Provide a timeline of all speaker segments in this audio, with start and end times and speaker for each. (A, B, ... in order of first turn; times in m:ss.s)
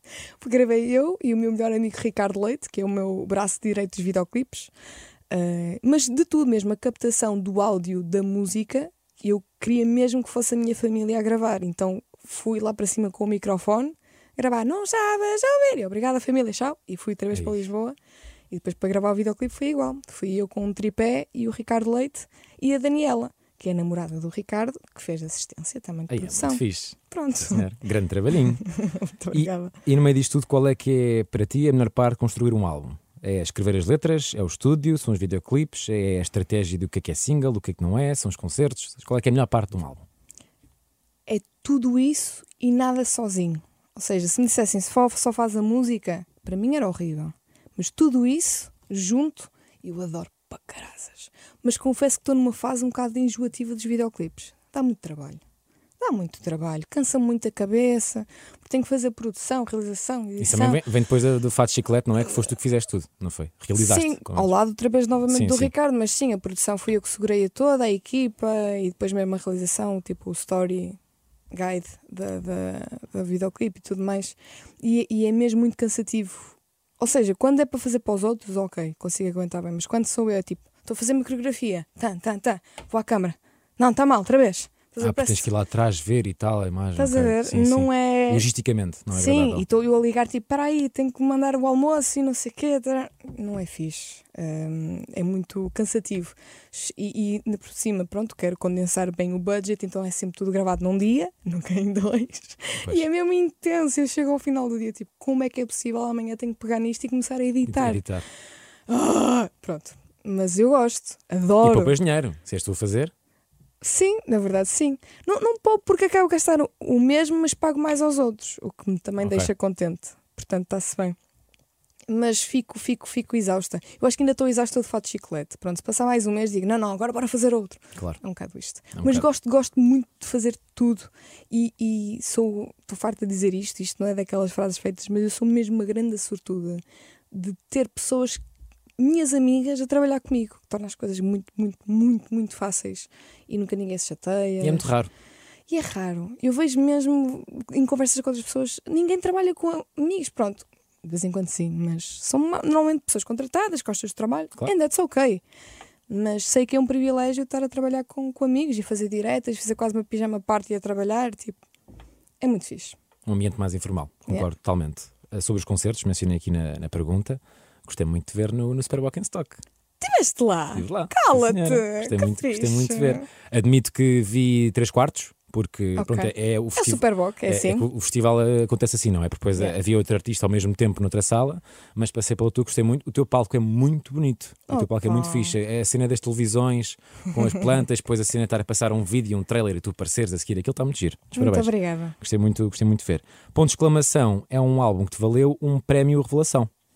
0:00.4-0:04.7 A
0:05.3-0:18.0 A
0:18.5-0:27.7 A
0:26.1-0:28.6 B
0:28.7-0:29.8 A
0:29.3-0:40.0 B
0:41.3-0:55.4 A
0:56.0-1:00.8 A
1:00.4-1:04.5 B
1:03.7-1:11.0 A
1:05.3-1:05.7 B
1:11.5-1:25.5 A
1:25.0-1:29.6 B
1:27.0-1:28.5 A
1:29.1-1:48.0 A
1:47.6-1:48.2 B
1:48.9-1:51.9 A
1:51.6-1:53.1 B
1:53.8-2:01.2 A
1:59.2-1:59.5 B
2:02.1-2:18.4 A
2:08.9-2:09.3 B
2:19.0-2:24.8 A
2:24.6-2:25.1 B
2:25.7-2:35.4 A
2:36.1-2:41.6 A
2:42.4-2:43.0 A
2:43.2-2:49.6 B
2:50.0-2:53.3 A
2:50.7-3:16.7 B
2:56.0-2:57.8 A
3:04.7-3:05.6 A
3:11.4-3:12.2 A